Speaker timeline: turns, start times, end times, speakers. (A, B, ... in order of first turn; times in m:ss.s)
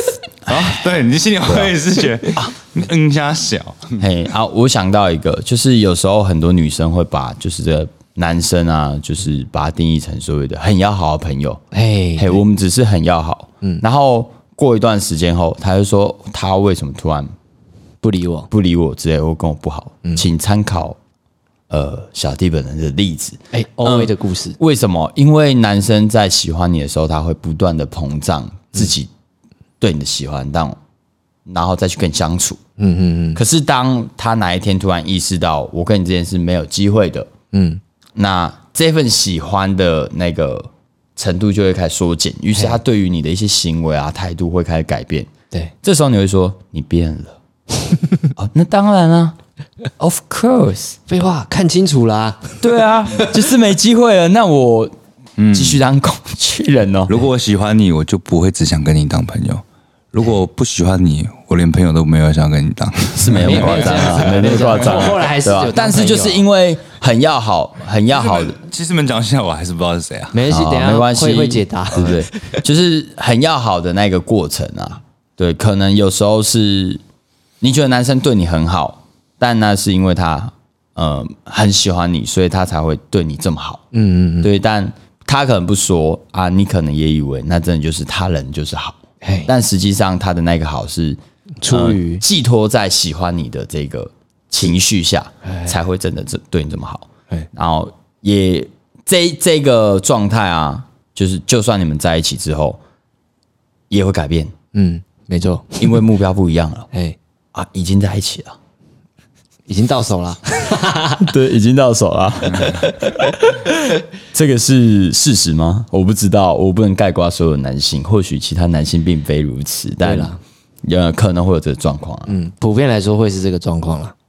0:00.4-0:04.0 A
0:00.5-0:00.7 B
0:01.5-0:01.7 B
0:04.0-0:11.6 B
0:11.7-0:12.4 C
0:12.2-0:17.3 B
0:18.0-0:18.5 C
0:18.5-0:21.0 B
0:21.7-0:29.1 B
0:23.5-0:24.6 C
0:29.8-0:30.8 B
0:31.4-0:32.6 B
0:32.8-0:33.4 C
0:33.4-0:37.3 B
0:37.5-0:37.8 C
0:38.1-0:45.3 B
0:45.8-0:47.4 B
0:48.3-0:49.4 B
0:50.0-0:51.0 B
0:51.1-0:53.4 C
0:52.6-0:54.9 B
0:55.4-0:55.8 A
0:55.5-0:57.1 B
0:57.1-0:59.6 A
1:00.1-1:05.1 A
1:03.1-1:08.6 B
1:03.4-1:06.4 C
1:08.2-1:10.4 A
1:10.3-1:12.6 C
1:10.5-1:17.0 B
1:17.6-1:23.8 B
1:23.9-1:24.5 C
1:24.4-1:42.8 B
1:29.2-1:29.5 C
1:31.6-1:32.2 C
1:35.4-1:35.7 C
1:43.9-1:44.5 B
1:44.7-1:46.0 C
1:45.8-1:46.9 B
1:46.9-1:47.2 C
1:47.5-1:48.6 B
1:49.7-1:51.3 C
1:51.2-2:00.3 B
2:00.0-2:00.4 C
2:00.8-2:02.3 B
2:02.3-2:04.1 C